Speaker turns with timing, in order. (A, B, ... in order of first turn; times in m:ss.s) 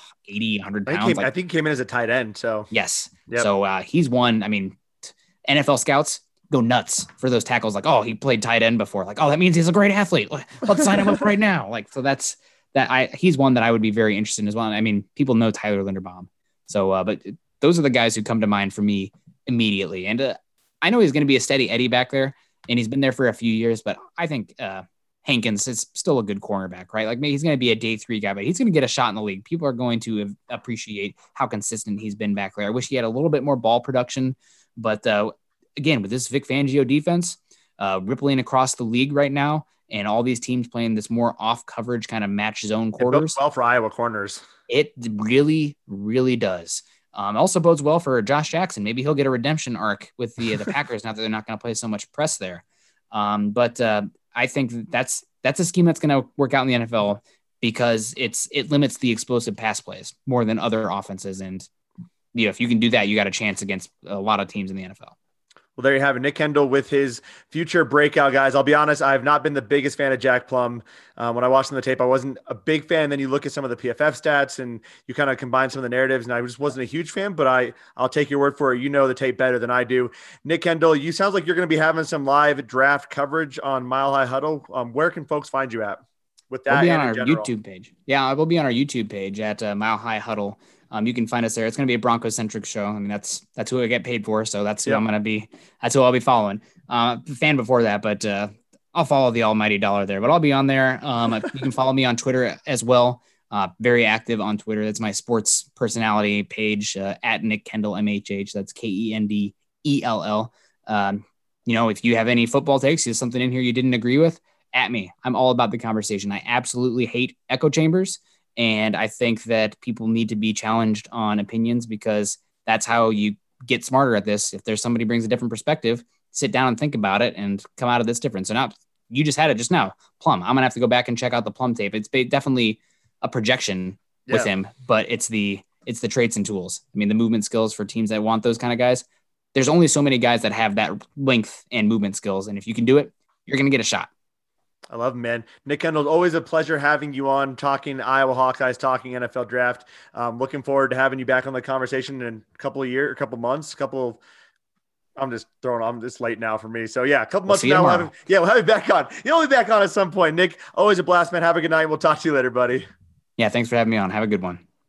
0:00.2-0:01.3 A
0:00.9-0:02.7 B
0:02.7-0:43.4 A
0:10.9-0:11.1 B
0:43.0-0:44.4 B
0:44.7-1:01.7 A
1:02.3-1:05.2 A
1:05.8-1:27.5 B
1:26.7-2:24.1 A
2:24.9-2:34.2 B
2:35.2-2:42.8 B
2:37.5-2:38.1 A
2:43.4-2:44.6 A